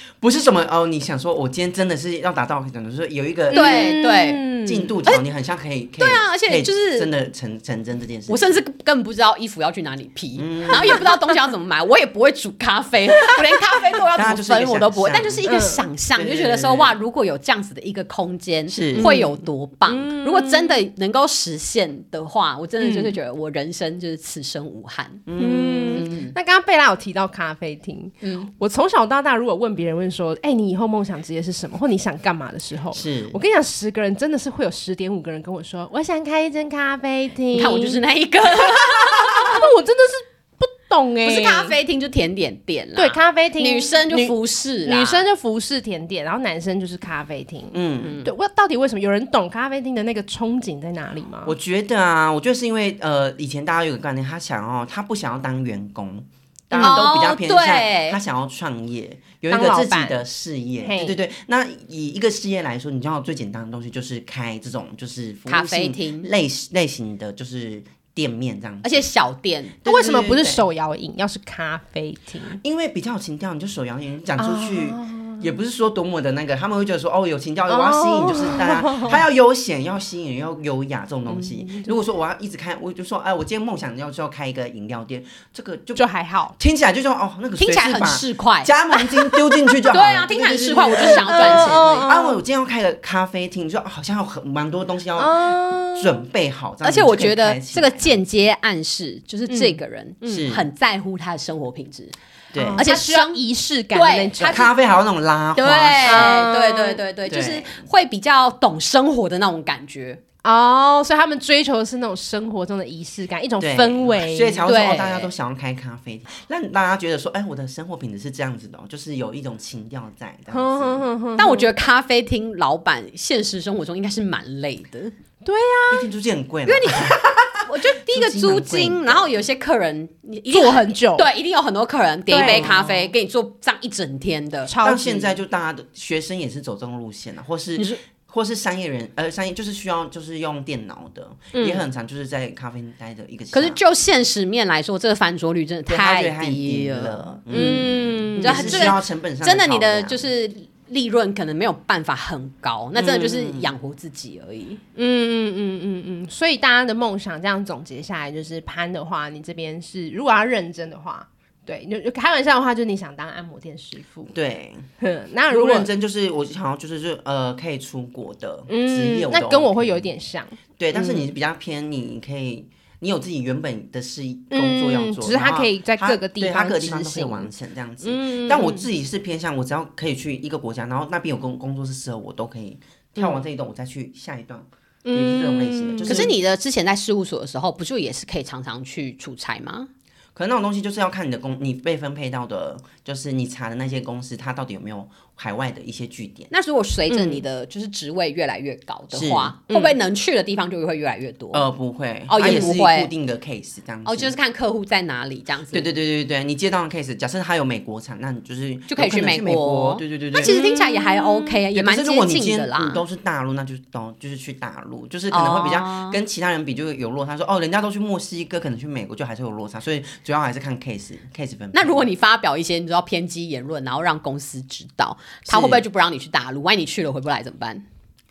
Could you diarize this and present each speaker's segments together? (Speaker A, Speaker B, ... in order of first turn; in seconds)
Speaker A: 0.2-4.0, 4.6-8.6, 10.3-11.1, 14.1-15.6, 16.1-17.0, 18.7-19.2, 25.2-26.1, 32.9-33.4, 47.7-48.2, 51.4-69.0, 69.8-70.6, 72.6-98.2, 100.3-100.7, 102.5-102.8, 104.4-106.5, 107.3-107.8, 113.6-121.0, 125.9-129.3, 132.3-133.1, 134.8-143.8, 145.9-150.3, 152.9-153.7, 164.3-164.8, 165.5-170.1, 170.8-186.3, 190.3-196.5, 199.1-199.6, 201.5-204.3, 205.7-210.6, 211.7-222.1, 225.5-225.8
Speaker B: 3.5-4.9, 15.4-15.8, 18.9-20.8, 22.8-23.1, 25.4-38.0, 38.7-41.7, 43.0-51.5, 56.7-57.1, 59.5-60.2, 60.8-61.2, 69.8-72.6, 74.4-75.5, 77.7-79.2, 81.3-81.9, 85.9-86.5, 90.9-92.4, 95.2-96.2, 99.5-100.5, 102.5-104.7, 106.0-107.0, 110.4-114.7, 120.5-121.7, 125.4-126.1, 130.5-131.3, 132.3-132.9, 134.7-135.3, 141.5-141.8, 147.5-148.9, 154.9-164.3, 165.0-165.9, 168.7-171.3, 174.5-177.5, 178.0-178.8, 185.0-186.3, 197.1-197.4, 199.7-199.9, 210.4-211.6
Speaker C: 3.5-4.5, 6.0-7.1, 8.3-25.3, 25.9-26.3, 28.2-28.5, 37.5-39.6, 41.2-45.2, 48.0-48.3, 56.8-58.2, 65.5-66.3, 68.8-69.8, 87.6-88.7, 89.9-92.0, 96.8-102.1, 102.8-104.7, 105.5-110.2, 114.6-115.3, 121.4-125.1, 126.7-134.7, 143.5-154.8, 186.1-189.9, 196.5-201.7, 202.3-203.1, 204.0-205.9, 208.9-213.0, 215.3-216.2, 221.7-227.8